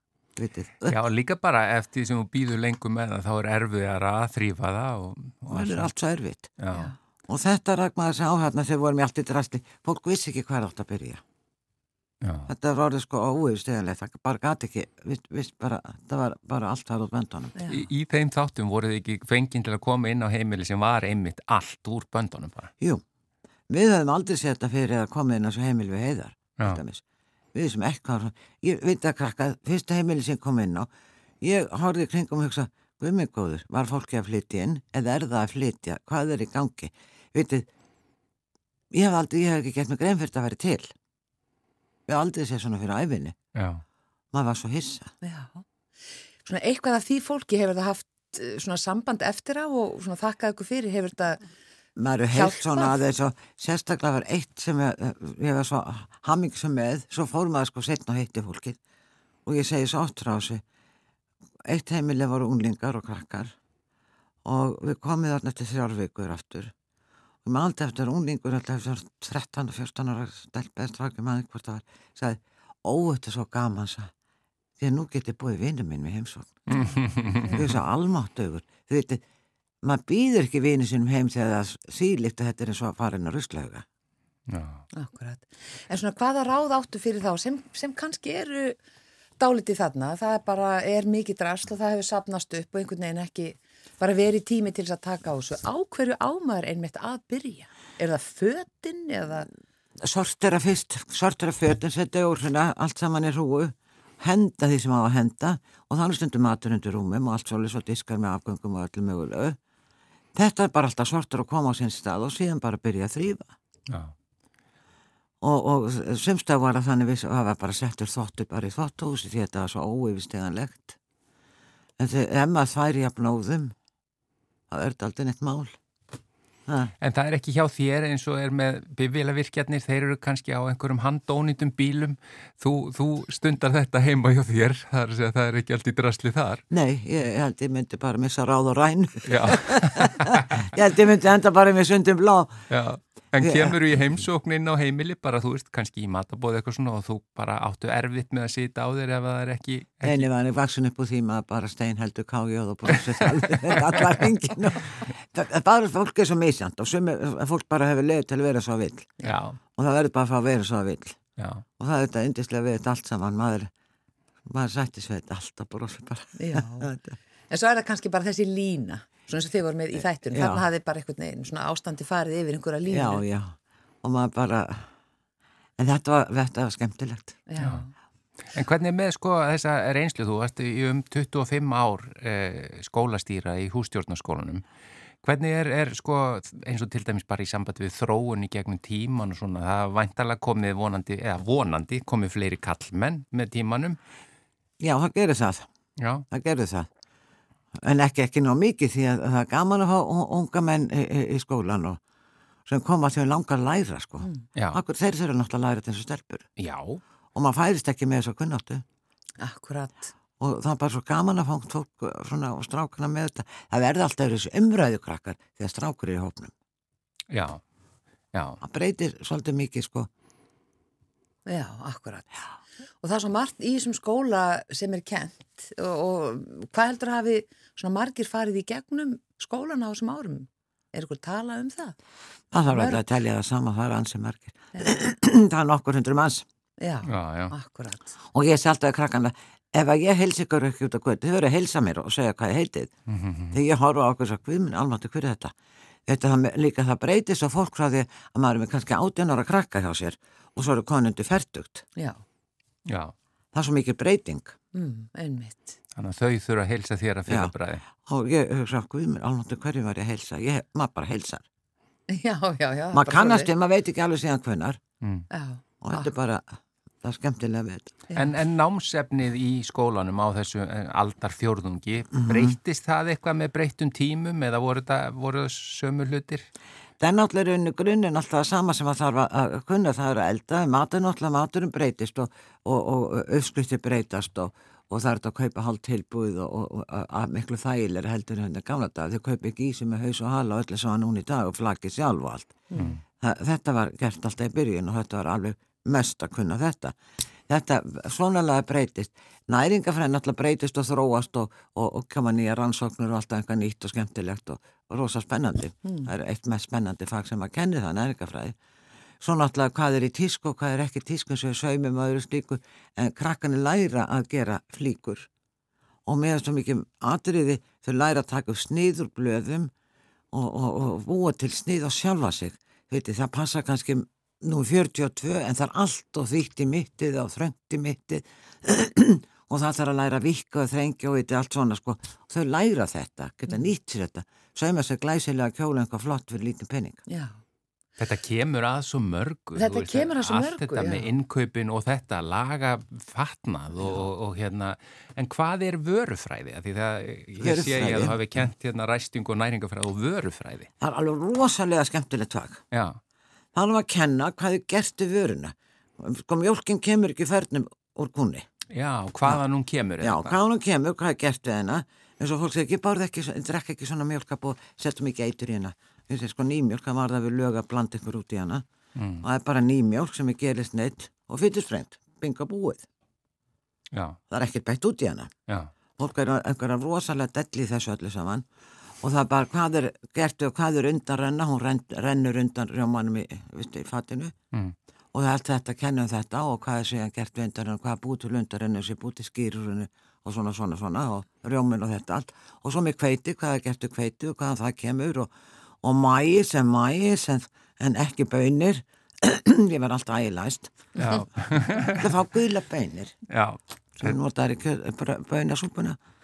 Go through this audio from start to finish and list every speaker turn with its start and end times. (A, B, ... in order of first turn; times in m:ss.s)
0:00.4-0:01.0 A
0:00.9-0:05.9 B
0:05.5-0:06.5 A
0:06.6-0:06.9 B
0:07.3-0:11.2 A
0:12.2-0:12.5 B
0:12.5-0:17.6 A
0:17.6-0:17.8 C
0:17.7-0:22.7 B
0:23.7-0:27.0 A
0:27.5-0:30.9 A
0:31.4-0:37.7 A
0:38.9-0:40.9 A
0:42.1-0:43.4 A
0:43.6-0:43.8 B
0:44.3-0:45.1 A
0:45.2-0:45.6 C
0:46.4-0:51.4 C
0:52.0-0:58.8 A
0:52.3-0:53.0 C
0:59.5-1:00.6 A
1:01.6-1:03.6 A
1:04.4-1:06.7 A
1:07.4-1:14.1 A
1:14.8-1:16.7 A
1:16.7-1:17.6 C
1:16.7-1:17.6 B
1:17.5-1:19.2 A
1:19.8-1:23.8 A
1:24.5-1:24.8 B
1:24.9-1:28.8 C
1:29.4-1:39.5 C
1:40.0-1:49.6 A
1:50.4-1:53.5 A
1:53.9-1:54.1 B
1:55.4-2:01.0 A
2:02.0-2:03.8 A
2:04.7-2:05.8 A
2:06.7-2:06.9 A
2:07.0-2:16.6 B
2:16.7-2:22.6 A
2:19.3-2:20.7 B
2:22.7-2:30.3 B
2:23.4-2:23.8 A
2:30.0-2:39.1 A
2:33.1-2:34.2 B
2:39.2-2:39.6 B
2:39.8-2:41.2 A
2:41.4-2:41.6 B
2:41.8-2:43.7 A
2:44.4-2:47.2 A
2:46.4-2:46.9 C
2:47.5-2:53.2 C
2:50.3-2:50.6 A
2:52.9-2:54.9 A
2:55.8-2:57.4 A
2:57.5-2:57.9 C
2:58.5-3:04.6 B
3:05.2-3:14.0 B
3:14.8-3:15.7 A
3:16.0-3:16.3 B
3:16.3-3:16.9 A
3:17.8-3:22.0 A
3:22.7-3:26.5 A
3:24.6-3:24.8 B
3:26.6-3:27.0 B
3:27.4-3:28.8 A
3:29.4-3:30.1 C
3:30.4-3:36.5 A
3:37.3-3:37.6 B
3:38.3-3:38.6 B
3:38.6-3:40.1 A
3:41.5-3:42.3 C
3:43.0-3:52.0 C
3:52.5-3:56.5 A
3:52.7-3:53.0 C
3:56.8-3:58.2 C
3:57.0-3:57.5 B
3:58.3-4:02.9 A
4:03.1-4:03.6 B
4:03.5-4:05.5 A
4:06.1-4:11.8 A
4:12.0-4:12.2 C
4:12.9-4:13.1 B
4:13.5-4:14.6 A
4:14.7-4:15.8 C
4:16.0-4:17.9 B
4:17.3-4:21.4 A
4:22.1-4:23.5 C
4:22.9-4:24.8 A
4:25.0-4:25.3 B
4:25.3-4:26.1 C
4:25.8-4:28.0 A
4:28.2-4:36.5 B
4:32.2-4:32.6 A
4:37.0-4:52.6 A
4:52.7-4:53.0 C
4:53.2-4:57.0 A
4:57.5-5:08.6 A
5:09.2-5:15.3 A
5:16.1-5:19.7 A
5:20.3-5:37.0 A
5:37.1-5:37.4 C
5:38.0-5:50.7 B
5:39.6-5:41.1 C
5:47.4-5:48.2 A
5:50.8-5:52.6 A
5:52.7-5:53.0 B
5:53.5-5:58.5 A
5:58.7-6:00.4 B
6:00.0-6:08.6 A
6:09.0-6:09.2 B
6:09.2-6:12.9 A
6:13.9-6:14.2 B
6:14.3-6:15.3 A
6:16.0-6:18.5 A
6:19.0-6:24.4 A
6:25.1-6:40.8 A
6:41.0-6:42.1 B
6:41.0-6:41.2 C
6:41.9-6:43.2 A
6:43.3-6:44.2 B
6:44.0-6:46.0 A